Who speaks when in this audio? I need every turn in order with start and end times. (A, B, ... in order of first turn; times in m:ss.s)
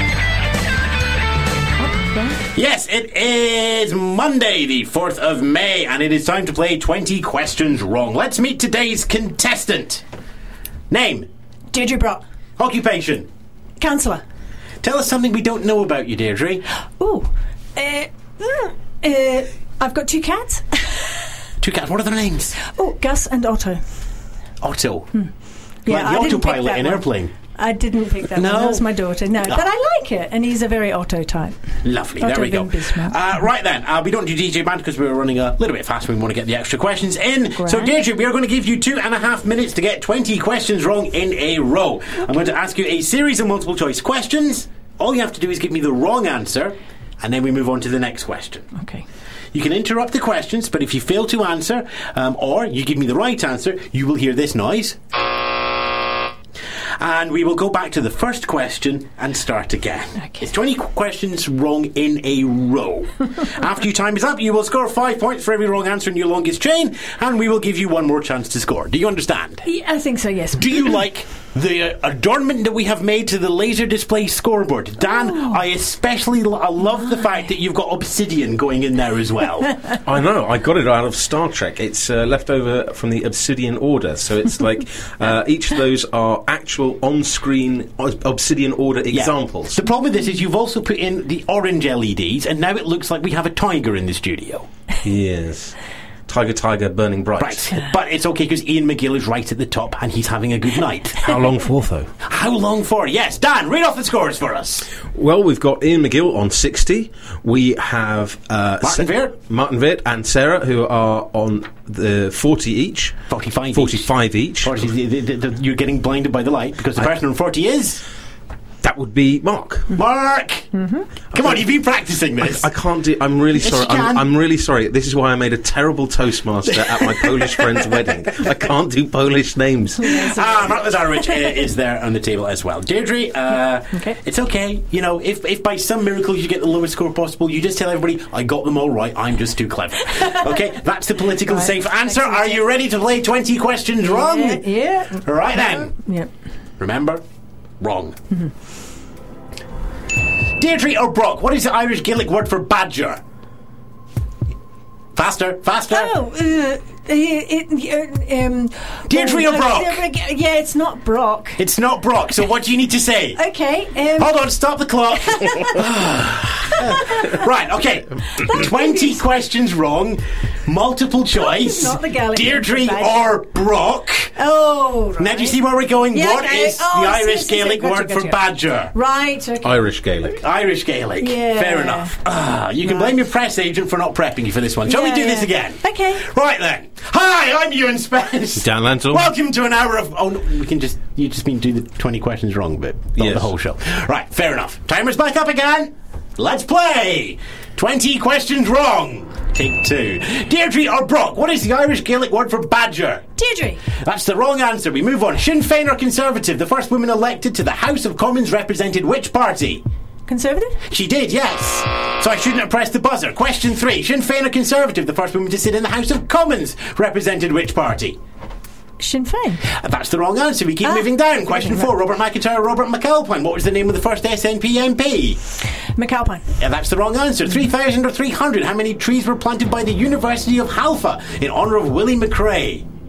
0:01.8-0:02.4 A
0:02.5-0:10.0 B
0:10.9-0:11.3 B
0:11.7-0:12.2 A
0:12.6-0:13.3 B
0:13.8-0:14.2 A
0:14.8-0:16.6 B
0:17.0-0:21.1 A
0:21.6-0:22.6 B
0:22.6-0:23.8 A
0:24.6-0:25.1 B
0:25.8-0:27.4 B
0:25.8-0:31.6 A
0:28.3-0:28.9 B
0:31.8-0:48.7 B
0:32.2-0:33.4 A
0:37.6-0:37.9 A
0:48.7-0:49.0 A
0:49.5-0:55.0 B
0:57.0-1:09.6 B
1:00.2-1:00.4 A
1:09.6-1:11.0 A
1:10.5-1:19.8 B
1:15.1-1:15.6 A
1:20.0-1:29.8 C
1:29.1-1:34.7 B
1:35.0-1:35.7 C
1:36.3-1:37.7 C
1:37.4-1:41.4 B
1:41.2-1:42.1 C
1:42.2-1:44.9 B
1:45.1-1:53.1 C
1:48.8-1:49.4 B
1:53.3-1:58.0 B
1:53.7-1:54.8 C
1:58.8-1:59.9 C
1:59.9-2:00.7 B
2:00.8-2:01.0 A
2:01.3-2:02.7 B
2:02.4-2:10.1 C
2:03.6-2:04.2 B
2:06.6-2:08.4 B
2:10.0-2:11.6 A
2:10.0-2:24.6 B
2:13.9-2:14.2 A
2:20.2-2:20.6 A
2:21.4-2:22.7 A
2:24.0-2:26.3 A
2:25.2-2:26.0 B
2:26.8-2:27.2 B
2:27.8-2:28.2 B
2:30.6-2:33.2 B
2:35.2-2:36.1 B
2:35.9-2:41.6 A
2:39.1-2:40.0 B
2:41.6-2:43.4 B
2:43.4-2:44.4 A
2:44.2-2:54.4 B
2:45.1-2:45.9 A
2:46.6-2:47.4 A
2:48.3-2:49.2 A
2:51.3-2:53.3 A
2:54.4-2:55.6 A
2:55.2-2:58.9 B
2:56.1-2:58.4 A
2:58.9-2:59.8 A
2:59.6-3:00.4 C
3:00.2-3:23.2 B
3:01.2-3:02.2 A
3:02.8-3:03.1 A
3:04.8-3:06.2 A
3:08.6-3:09.3 C
3:13.2-3:13.5 C
3:23.4-3:23.8 A
3:23.9-3:29.8 B
3:30.3-3:30.8 A
3:30.8-3:38.2 B
3:39.0-3:39.7 A
3:39.7-3:45.4 B
3:40.8-3:41.9 A
3:46.0-3:46.5 A
3:46.6-3:52.8 B